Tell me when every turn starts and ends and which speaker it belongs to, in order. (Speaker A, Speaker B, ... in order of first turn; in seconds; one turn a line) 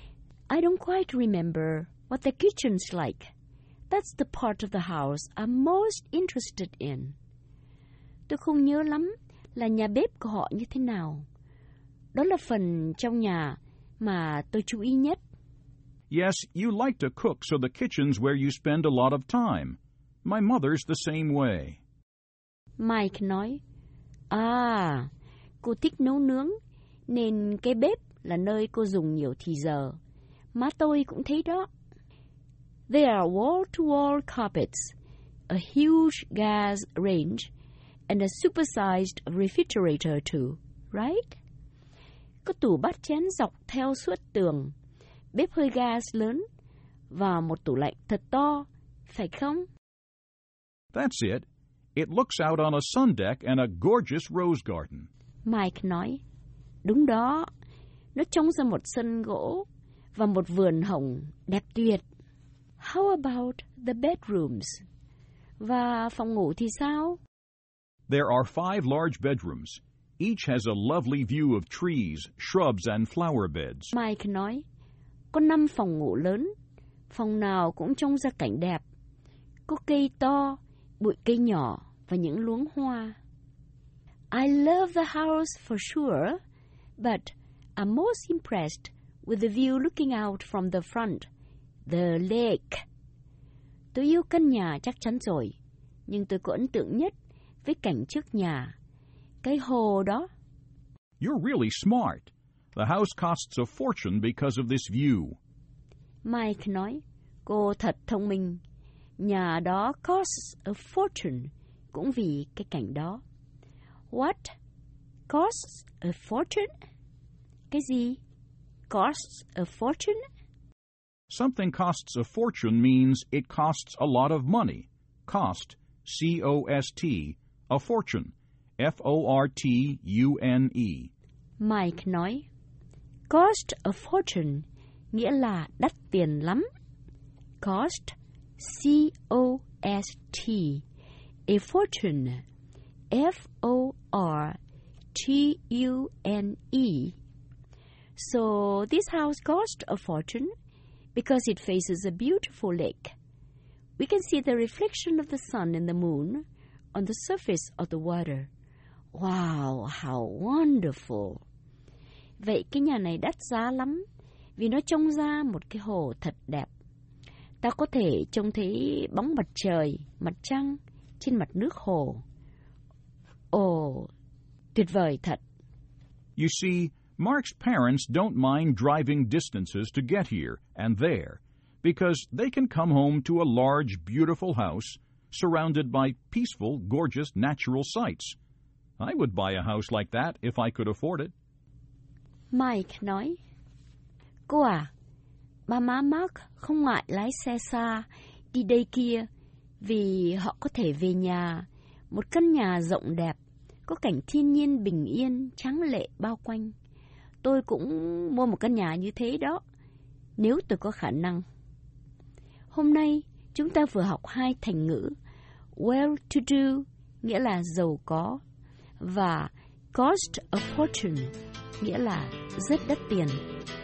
Speaker A: 0.5-3.3
Speaker A: 3.9-7.1
Speaker A: 8.3-11.2
Speaker A: 12.1-15.2
Speaker B: 16.1-21.8
Speaker A: 22.8-23.6
Speaker A: 24.3-25.1
Speaker A: 25.6-26.6
Speaker A: 27.1-30.0
Speaker A: 30.5-31.7
Speaker A: 32.9-34.9
Speaker A: 35.5-37.5
Speaker A: 38.1-41.4
Speaker A: 42.4-44.7
Speaker A: 45.3-46.4
Speaker A: 47.1-49.6
Speaker B: 50.9-51.4
Speaker B: 52.0-55.1
Speaker A: 55.5-56.2
Speaker A: 56.8-57.5
Speaker A: 58.1-62.0
Speaker A: 62.8-64.8
Speaker A: 65.6-67.2
Speaker B: 68.1-73.9
Speaker A: 73.9-74.6
Speaker A: 75.3-76.5
Speaker A: 77.1-78.8
Speaker A: 79.7-83.2
Speaker A: 84.3-86.4
Speaker A: 87.0-91.2
Speaker A: 91.8-92.8
Speaker A: 93.9-95.5
Speaker A: 96.1-98.7
Speaker A: 99.4-100.3
Speaker B: 101.2-105.4
Speaker A: 106.2-108.6
Speaker A: 109.2-113.2
Speaker A: 114.1-114.5
Speaker A: 115.3-116.7
Speaker A: 117.7-118.2
Speaker A: 118.9-120.2
Speaker B: 121.3-131.1
Speaker A: 131.6-132.5
Speaker A: 133.3-136.7
Speaker A: 137.6-140.8
Speaker A: 141.5-142.4
Speaker A: 143.1-144.6
Speaker A: 145.1-147.2
Speaker A: 148.2-150.5
Speaker A: 151.1-153.1
Speaker A: 154.0-158.5
Speaker A: 159.1-161.4
Speaker A: 162.4-164.0
Speaker A: 164.6-166.7
Speaker A: 167.6-172.2
Speaker A: 173.5-174.1
Speaker A: 174.7-175.4
Speaker B: 176.4-188.3
Speaker B: 189.0-191.3
Speaker A: 192.5-193.4
Speaker A: 194.5-194.9
Speaker A: 195.7-199.2
Speaker A: 199.8-206.7
Speaker A: 207.4-209.6
Speaker A: 210.4-211.4
Speaker A: 212.7-215.1
Speaker A: 215.8-218.4
Speaker A: 219.0-223.4